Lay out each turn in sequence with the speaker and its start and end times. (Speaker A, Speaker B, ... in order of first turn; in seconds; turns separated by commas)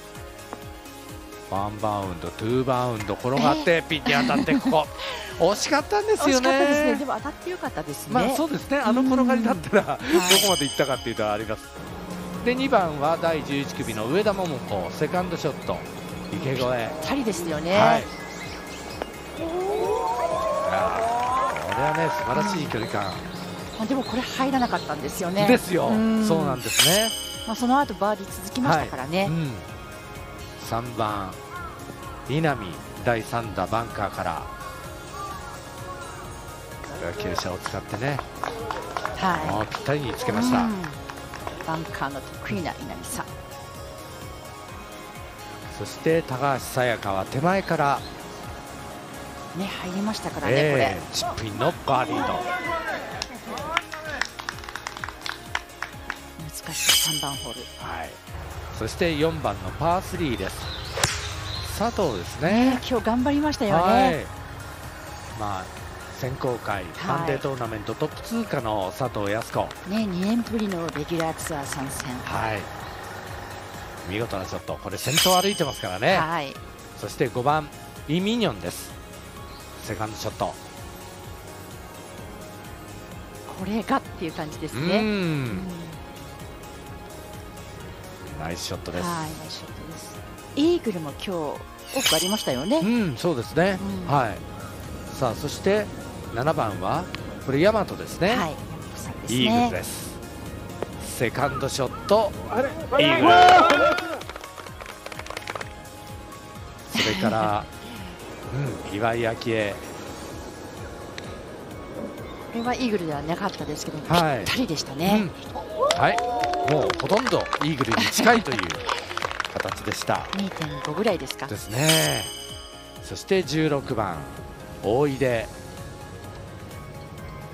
Speaker A: 1.5-7.0, Speaker B: 3.4-4.8, Speaker B: 6.2-10.5, Speaker A: 8.1-11.7, Speaker A: 12.4-17.0, Speaker B: 16.4-18.1, Speaker A: 17.7-18.1, Speaker A: 20.6-23.3, Speaker B: 22.3-22.8, Speaker B: 23.8-26.6, Speaker A: 25.4-27.2, Speaker B: 27.5-29.3, Speaker A: 28.6-29.7, Speaker A: 30.6-31.4, Speaker A: 32.3-34.5, Speaker A: 37.0-38.2, Speaker B: 39.2-39.7, Speaker A: 39.3-40.7, Speaker B: 40.3-41.0, Speaker B: 41.6-43.3, Speaker A: 45.7-48.0, Speaker B: 49.5-51.0, Speaker A: 50.4-52.5, Speaker B: 56.4-57.7, Speaker A: 57.8-58.2, Speaker A: 58.7-60.7, Speaker A: 61.6-62.8, Speaker B: 62.5-64.2, Speaker A: 63.7-64.3, Speaker A: 65.3-69.8, Speaker B: 67.0-67.5, Speaker B: 69.8-72.3, Speaker A: 72.2-72.7, Speaker A: 74.0-76.3, Speaker B: 76.1-76.6, Speaker A: 77.0-78.9, Speaker A: 79.8-80.6, Speaker B: 83.5-86.0, Speaker A: 84.7-85.7, Speaker A: 88.2-89.4, Speaker B: 88.9-92.9, Speaker A: 92.8-94.4, Speaker B: 93.8-94.2, Speaker A: 95.1-98.5, Speaker B: 98.3-99.8, Speaker A: 99.3-100.2, Speaker A: 101.0-102.4, Speaker A: 102.9-103.8, Speaker A: 106.9-107.7, Speaker B: 107.0-108.1, Speaker A: 108.5-109.8, Speaker B: 112.5-115.3, Speaker A: 114.1-115.3, Speaker A: 115.9-118.8, Speaker B: 118.0-118.6, Speaker A: 119.5-120.3, Speaker B: 120.3-121.5, Speaker A: 121.5-122.3, Speaker A: 123.0-125.5